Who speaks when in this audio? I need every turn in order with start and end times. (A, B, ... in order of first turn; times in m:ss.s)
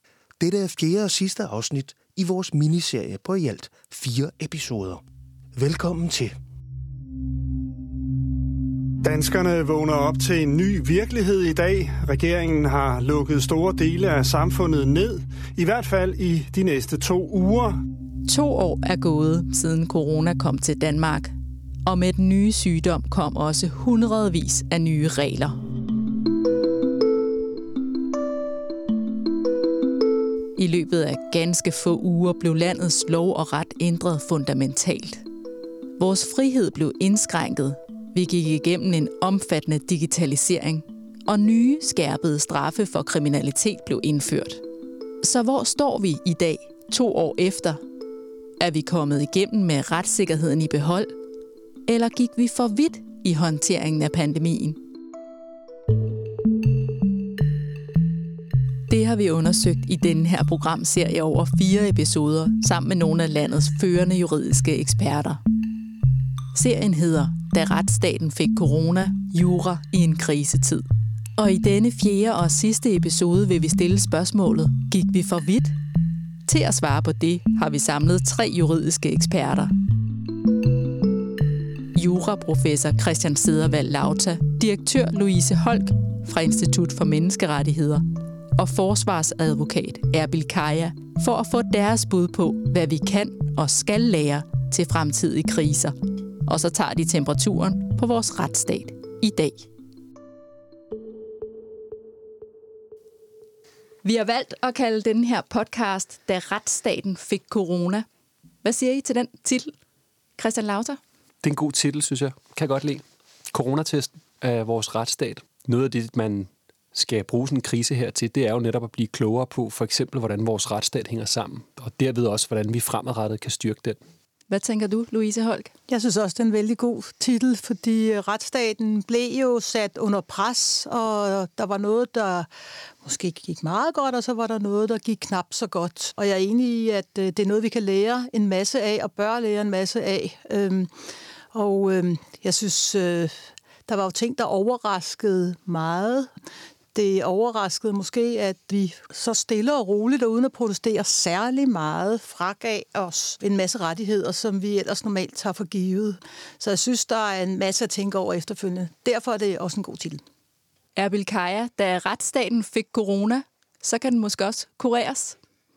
0:00.4-0:05.0 A
0:05.6-0:06.3 A
0:09.0-0:17.7 B
0:18.2-0:21.3 C
0:21.8-0:25.6 C
0:30.6-0:35.2 C
0:36.0-0:44.6 C
0:45.2-0:47.8 C
0:48.6-0:51.1 C
0:51.9-0:54.8 C
0:58.9-1:05.4 C
1:06.5-1:10.8 C
1:11.4-1:15.8 C
1:16.5-1:19.7 C
1:21.9-1:28.0 C
1:28.6-1:35.9 C
1:36.5-1:39.7 C
1:44.0-1:48.0 C
1:48.6-1:49.7 C
1:50.4-1:51.0 C
1:51.4-2:04.0 D
2:04.5-2:05.7 C
2:05.9-2:12.5 E
2:13.0-2:20.9 E
2:21.5-2:23.3 E
2:23.9-2:26.3 E
2:26.9-2:40.2 E
2:41.0-2:45.4 C